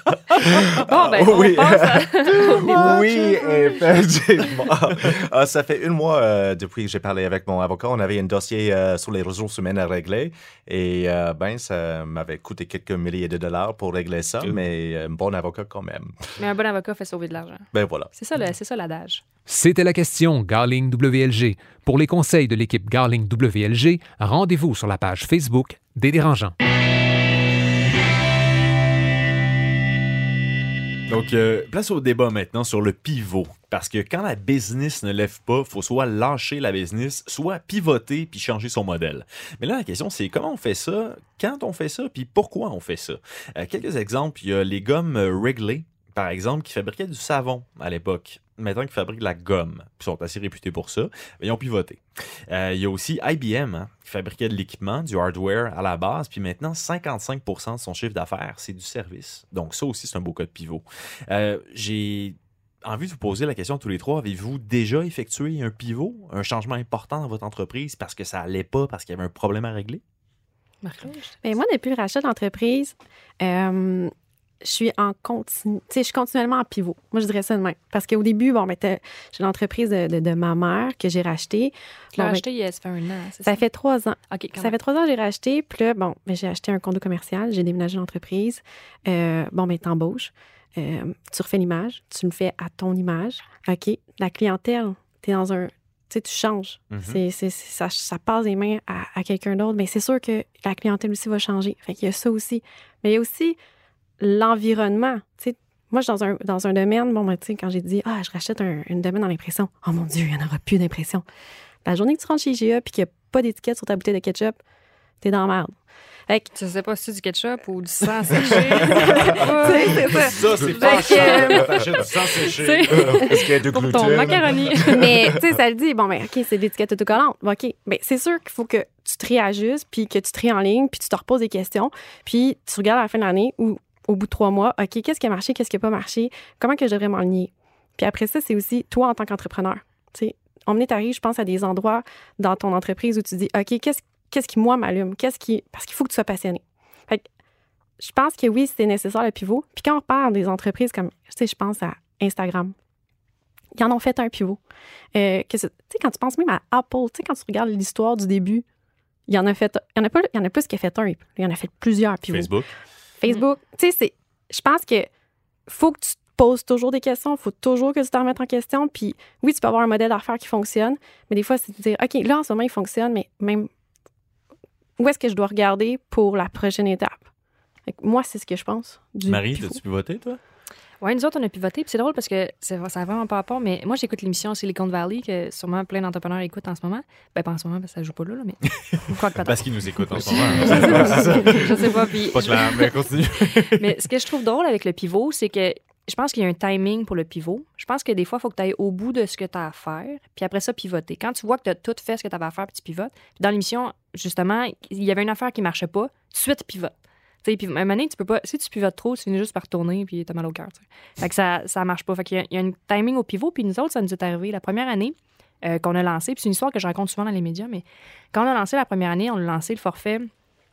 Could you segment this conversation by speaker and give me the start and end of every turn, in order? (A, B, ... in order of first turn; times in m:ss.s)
0:00.3-0:16.2 A
0:00.9-0:03.0 B
0:16.4-0:19.2 B
0:17.7-0:18.1 A
0:19.5-0:26.6 C
0:31.1-1:10.0 D
1:10.8-1:11.4 B
1:11.4-1:14.1 E
1:14.6-1:22.4 E
1:22.2-1:23.6 B
1:23.4-1:43.6 E
1:24.3-1:24.8 B
1:36.9-1:37.2 D
1:44.2-1:51.2 E
1:51.8-1:54.6 E
1:55.2-1:56.5 E
1:56.6-2:05.2 B
1:58.4-2:01.8 E
2:00.1-2:03.3 D
2:03.1-2:05.2 A
2:04.8-2:27.3 E
2:28.0-2:32.7 E
2:33.8-2:34.6 E
2:35.2-2:38.6 E
2:39.3-2:42.6 E
2:42.3-2:42.7 D
2:43.2-2:45.1 E
2:45.7-2:53.7 E
2:55.0-2:57.3 E
2:57.9-2:59.8 E
2:59.3-3:00.4 D
3:01.0-3:26.9 B
3:08.7-3:13.9 D
3:27.4-3:40.3 B